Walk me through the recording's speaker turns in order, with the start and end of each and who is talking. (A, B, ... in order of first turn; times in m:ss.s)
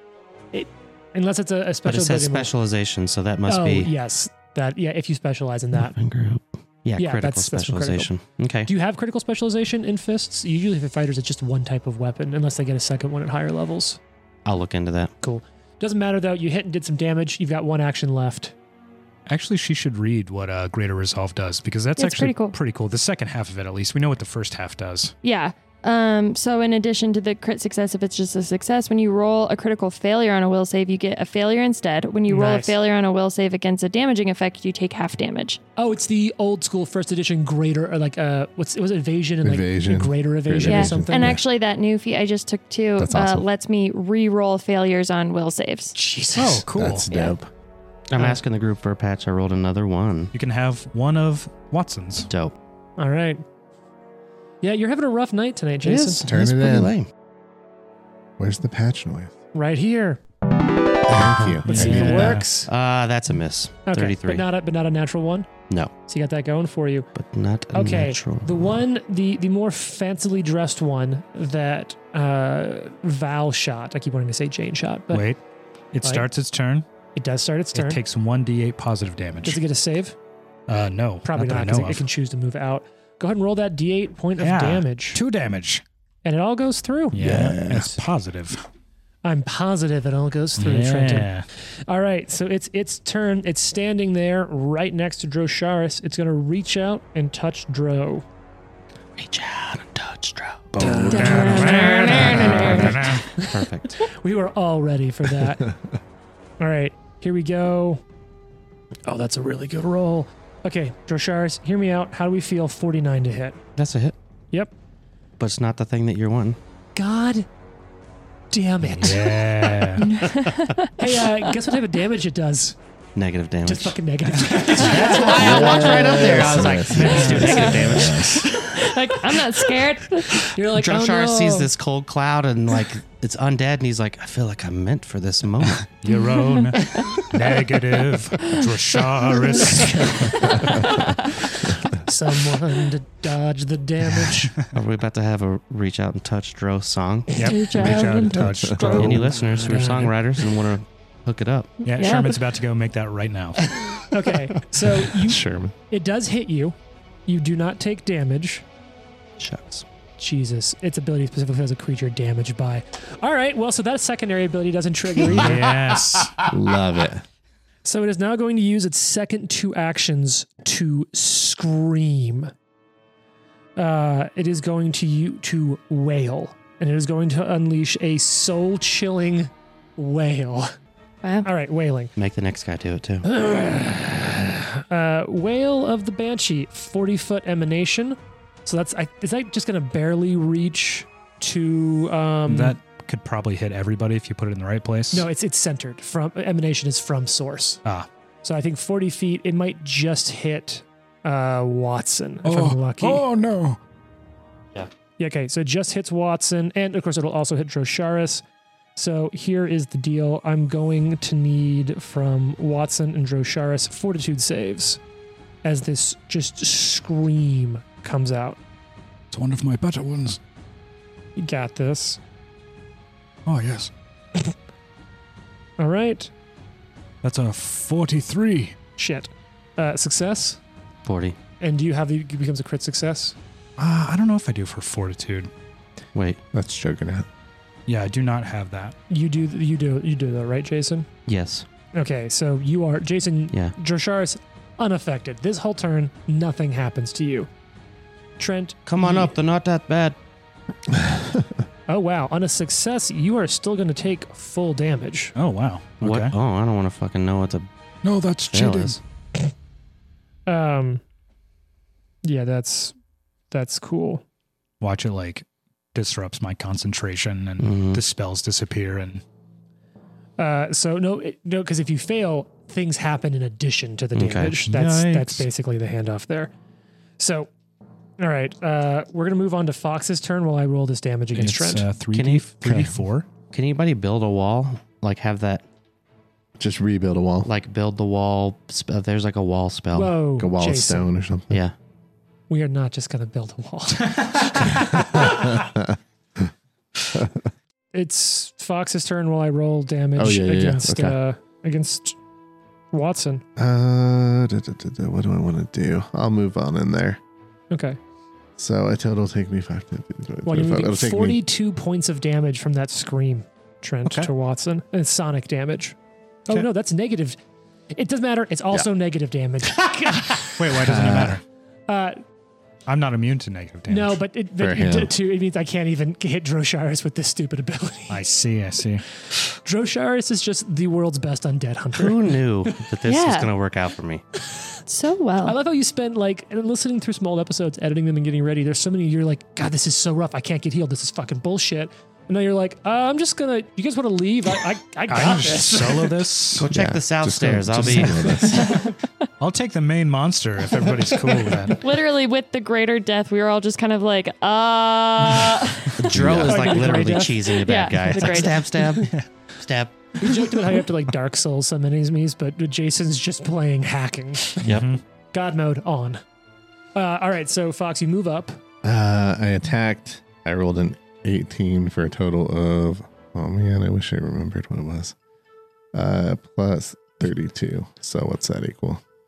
0:00.5-0:02.5 A
0:01.9-0:03.9 B
0:03.5-0:06.0 A
0:05.7-0:08.7 B
0:07.0-0:08.1 A
0:08.7-0:14.0 A
0:14.4-0:15.1 B
0:15.2-0:18.5 A
0:19.3-0:25.2 C
0:22.0-0:22.6 D
0:25.2-0:35.6 D
0:32.3-0:32.8 A
0:35.8-0:41.4 A
0:39.4-0:41.4 E
0:40.6-0:46.0 D
0:43.0-0:43.5 E
0:46.0-0:46.7 A
0:46.4-0:47.1 C
0:46.7-0:47.5 E
0:47.1-0:47.4 D
0:48.1-0:50.3 B
0:50.3-0:52.3 C
0:52.3-0:52.6 B
0:53.0-0:53.4 A
0:54.6-0:56.2 A
0:55.8-0:57.1 B
0:56.2-0:56.9 E
0:58.4-0:59.3 E
0:59.5-1:00.2 A
1:01.1-1:02.4 E
1:01.2-1:04.4 B
1:01.6-1:02.4 C
1:01.6-1:02.7 A
1:03.9-1:05.5 A
1:06.1-1:07.1 A
1:07.2-1:08.7 B
1:07.7-1:15.3 A
1:15.1-1:15.4 C
1:15.9-1:16.9 C
1:17.2-1:18.0 A
1:17.7-1:19.6 C
1:19.4-1:20.2 A
1:20.7-1:22.0 C
1:21.2-1:25.2 A
1:24.4-1:25.8 C
1:26.2-1:27.2 A
1:27.1-1:28.6 C
1:27.2-1:28.0 E
1:29.2-1:38.2 A
1:30.6-1:31.5 C
1:39.2-1:41.0 B
1:40.8-1:43.2 C
1:40.8-1:45.7 A
1:41.0-1:43.0 D
1:42.2-1:44.0 B
1:42.3-1:42.8 E
1:45.4-1:45.8 E
1:46.6-1:48.0 A
1:49.1-1:53.6 A
1:53.8-1:54.2 B
1:55.4-1:56.6 B
1:57.0-1:57.5 A
1:58.5-2:02.8 A
1:59.0-2:00.1 C
2:00.0-2:01.3 D
2:03.2-2:04.0 B
2:03.6-2:08.0 A
2:04.5-2:05.5 C
2:04.8-2:06.4 D
2:05.1-2:08.2 B
2:05.2-2:08.5 E
2:06.3-2:08.4 C
2:07.0-2:10.5 D
2:10.4-2:11.7 A
2:10.7-2:15.9 B
2:15.9-2:20.7 C
2:16.4-2:17.2 D
2:18.4-2:21.3 D
2:19.7-2:20.7 A
2:20.3-2:21.0 E
2:21.4-2:24.5 A
2:24.7-2:27.5 B
2:27.4-2:29.3 C
2:27.4-2:29.1 D
2:27.8-2:29.1 E
2:28.9-2:30.2 A
2:28.9-2:31.8 B
2:31.8-2:32.4 D
2:31.9-2:33.8 C
2:34.0-2:36.8 A
2:34.8-2:35.8 E
2:37.3-2:38.6 A
2:39.4-2:39.8 B
2:40.2-2:45.8 A
2:45.3-2:46.3 C
2:46.4-2:47.2 E
2:47.8-2:52.5 A
2:53.8-3:00.7 A
3:01.2-3:01.5 D
3:01.4-3:02.1 A
3:02.2-3:03.2 B
3:03.2-3:12.8 A
3:12.5-3:15.3 C
3:15.1-3:17.8 A
3:18.4-3:23.2 A
3:22.5-3:23.8 C
3:25.2-3:28.4 A
3:29.0-3:35.0 A
3:35.6-3:38.6 A
3:39.3-3:40.4 C
3:41.4-3:42.2 A
3:43.5-3:43.9 C
3:45.8-3:46.3 A
3:47.2-3:48.8 C
3:49.0-3:50.6 A
3:51.0-3:51.4 B
3:51.6-3:53.4 A
3:53.8-3:55.5 C
3:56.1-3:56.4 B
3:56.5-3:57.3 E
3:57.9-3:59.0 C
3:59.1-4:01.1 A
4:01.3-4:01.6 B
4:01.9-4:07.5 A
4:08.4-4:09.4 A
4:08.9-4:10.2 B
4:10.9-4:11.6 E
4:11.9-4:15.3 A
4:15.4-4:16.3 C
4:16.0-4:17.7 B
4:18.0-4:19.0 C
4:18.5-4:19.0 B
4:20.5-4:21.0 A
4:22.2-4:23.0 A
4:23.5-4:24.2 A
4:24.8-4:29.2 C
4:27.6-4:28.0 B
4:30.4-4:36.5 A
4:34.2-4:34.6 B
4:34.6-4:35.4 C
4:37.2-4:37.5 A
4:38.2-4:41.9 A
4:41.3-4:43.3 C
4:42.1-4:42.5 B
4:42.6-4:43.0 E
4:43.5-4:45.6 B
4:46.6-4:47.5 E
4:47.4-4:50.2 B
4:49.9-4:51.1 A
4:50.4-4:51.6 E
4:52.5-4:55.6 A
4:54.9-4:56.5 E
4:57.1-4:57.4 E
4:57.9-5:02.2 A
5:00.2-5:01.2 E
5:02.9-5:03.4 A
5:03.6-5:07.2 E
5:07.7-5:08.0 A
5:08.6-5:11.4 E
5:10.5-5:16.0 A
5:14.0-5:14.3 C
5:16.5-5:17.4 A
5:17.9-5:21.1 A
5:20.6-5:21.4 C
5:20.7-5:21.4 E
5:21.9-5:22.2 A
5:22.9-5:24.2 C
5:23.9-5:28.3 A
5:24.6-5:25.1 E
5:28.1-5:29.0 C
5:29.6-5:32.4 A
5:31.9-5:34.2 B
5:33.0-5:33.5 D
5:34.9-5:35.6 D
5:35.4-5:46.4 A
5:45.1-5:46.7 C
5:46.6-5:48.4 B
5:46.7-5:48.7 E
5:48.6-5:48.9 D
5:49.4-5:51.8 C
5:51.7-5:56.0 D
5:56.0-6:00.3 B
5:56.0-5:56.9 E
5:56.5-5:57.6 A
5:57.6-5:58.6 D
5:58.1-5:59.1 A
6:00.2-6:04.6 A
6:04.6-6:04.9 B
6:04.6-6:05.0 C
6:05.3-6:06.2 A
6:07.0-6:08.6 A
6:08.8-6:15.2 E
6:15.9-6:19.0 E